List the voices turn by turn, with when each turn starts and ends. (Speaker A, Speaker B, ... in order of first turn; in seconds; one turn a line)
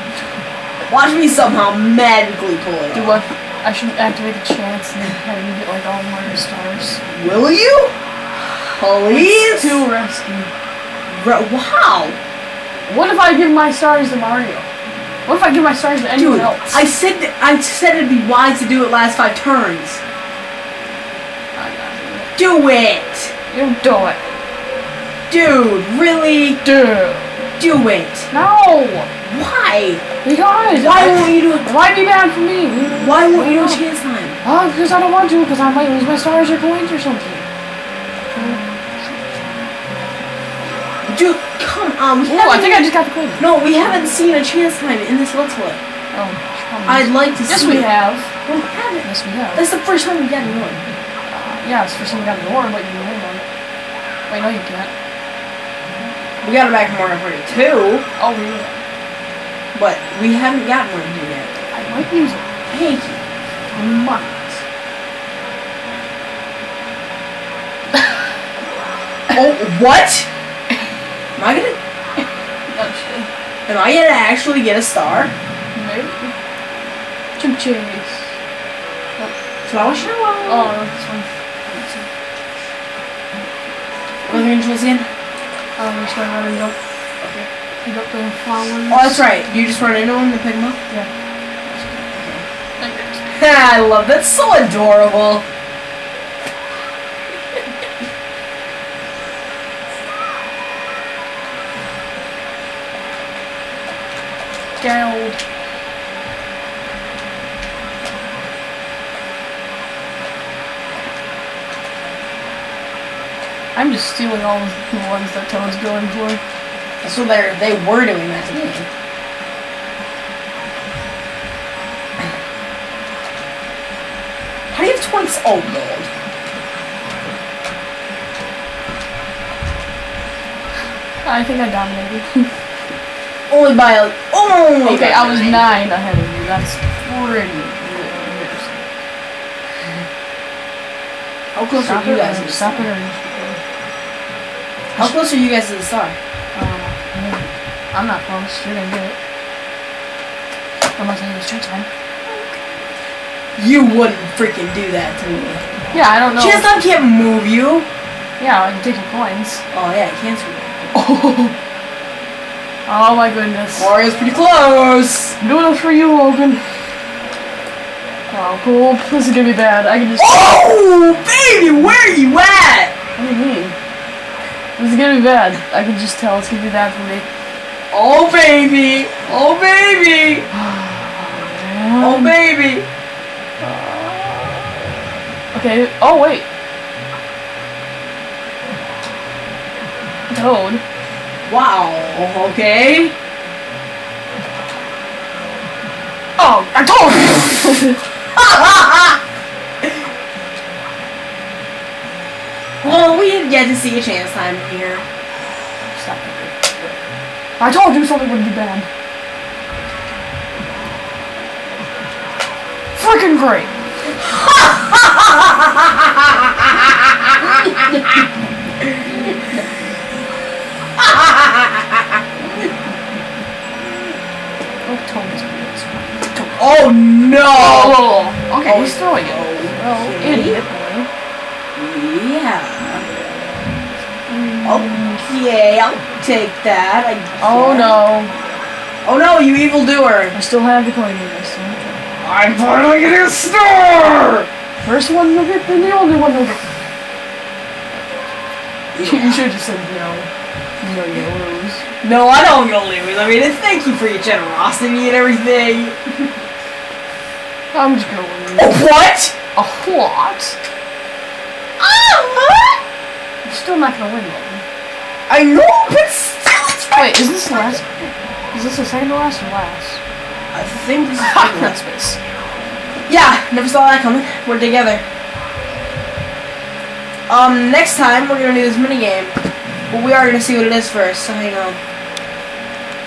Speaker A: 0.8-3.2
Speaker B: 2.9-7.0
Speaker A: 7.1-7.9
Speaker A: 8.8-9.8
Speaker B: 9.1-10.5
Speaker A: 11.1-12.2
Speaker B: 12.9-14.7
Speaker B: 15.3-16.9
Speaker A: 16.1-20.0
Speaker B: 21.6-22.3
Speaker A: 22.4-23.3
Speaker B: 23.5-24.2
Speaker A: 25.3-26.6
Speaker B: 26.6-27.3
Speaker A: 27.6-28.3
Speaker B: 28.3-29.1
Speaker A: 29.2-30.0
Speaker B: 30.2-33.8
Speaker A: 30.7-31.7
Speaker A: 32.9-34.4
Speaker B: 34.4-37.5
Speaker B: 38.3-38.6
Speaker A: 41.1-45.8
Speaker B: 42.3-43.5
Speaker B: 46.1-48.3
Speaker A: 46.9-47.9
Speaker A: 48.5-50.8
Speaker B: 49.0-49.6
Speaker B: 51.3-53.5
Speaker B: 54.3-54.9
Speaker A: 56.4-58.0
Speaker B: 58.2-58.8
Speaker A: 59.8-61.5
Speaker B: 61.7-62.5
Speaker A: 62.7-63.2
Speaker B: 63.7-64.6
Speaker A: 69.3-70.3
Speaker A: 71.4-71.8
Speaker B: 72.7-73.3
Speaker A: 73.7-75.3
Speaker B: 75.7-76.3
Speaker B: 77.4-78.3
Speaker A: 79.7-80.8
Speaker B: 80.5-81.3
Speaker A: 81.7-82.0
Speaker A: 84.2-85.1
Speaker B: 85.8-86.8
Speaker A: 87.2-87.5
Speaker B: 87.8-89.2
Speaker A: 88.9-90.8
Speaker B: 91.7-92.0
Speaker A: 92.2-92.5
Speaker B: 92.8-93.2
Speaker A: 93.3-95.5
Speaker B: 104.8-105.4
Speaker B: 113.8-116.4
Speaker A: 117.0-118.9
Speaker A: 124.7-126.1
Speaker B: 131.2-132.5
Speaker A: 133.5-135.7
Speaker B: 134.8-138.8
Speaker A: 141.5-142.9
Speaker B: 141.8-143.6
Speaker A: 144.9-146.2
Speaker B: 146.5-149.2
Speaker B: 150.9-151.9
Speaker A: 152.3-152.6
Speaker A: 153.6-155.7
Speaker B: 155.9-156.7
Speaker A: 156.4-157.9
Speaker B: 158.4-159.6
Speaker A: 159.7-160.8
Speaker B: 160.9-161.6
Speaker B: 162.9-163.9
Speaker A: 163.8-165.3
Speaker B: 165.4-166.6
Speaker B: 168.3-170.6
Speaker A: 170.2-172.9
Speaker B: 173.2-173.8
Speaker B: 174.8-177.3
Speaker A: 177.9-180.5
Speaker B: 180.5-182.3
Speaker A: 182.0-182.9
Speaker B: 183.6-184.9
Speaker B: 185.5-186.4
Speaker B: 190.3-190.8
Speaker A: 191.5-193.1
Speaker B: 196.4-198.0
Speaker A: 198.4-199.2
Speaker A: 202.8-205.1
Speaker B: 205.9-206.6
Speaker B: 207.6-208.9
Speaker B: 212.9-213.7
Speaker A: 214.3-217.6
Speaker A: 221.0-222.0
Speaker B: 224.8-226.6
Speaker A: 226.6-228.0
Speaker B: 227.5-231.1
Speaker A: 228.6-230.6
Speaker A: 231.8-233.1
Speaker B: 234.3-235.2
Speaker A: 234.6-238.0
Speaker B: 237.4-238.3
Speaker A: 239.1-240.3
Speaker B: 240.3-242.0
Speaker A: 242.2-244.5
Speaker B: 244.8-246.7
Speaker A: 248.9-249.5
Speaker B: 249.0-250.3
Speaker B: 250.8-251.8
Speaker A: 252.0-256.1
Speaker B: 257.7-258.8
Speaker A: 258.6-259.4
Speaker B: 259.6-260.6
Speaker A: 261.8-262.8
Speaker B: 263.4-264.6
Speaker A: 265.3-267.4
Speaker B: 266.9-270.0
Speaker A: 270.5-271.8
Speaker B: 271.2-272.2
Speaker A: 273.1-275.0
Speaker A: 277.3-279.4
Speaker A: 279.9-281.8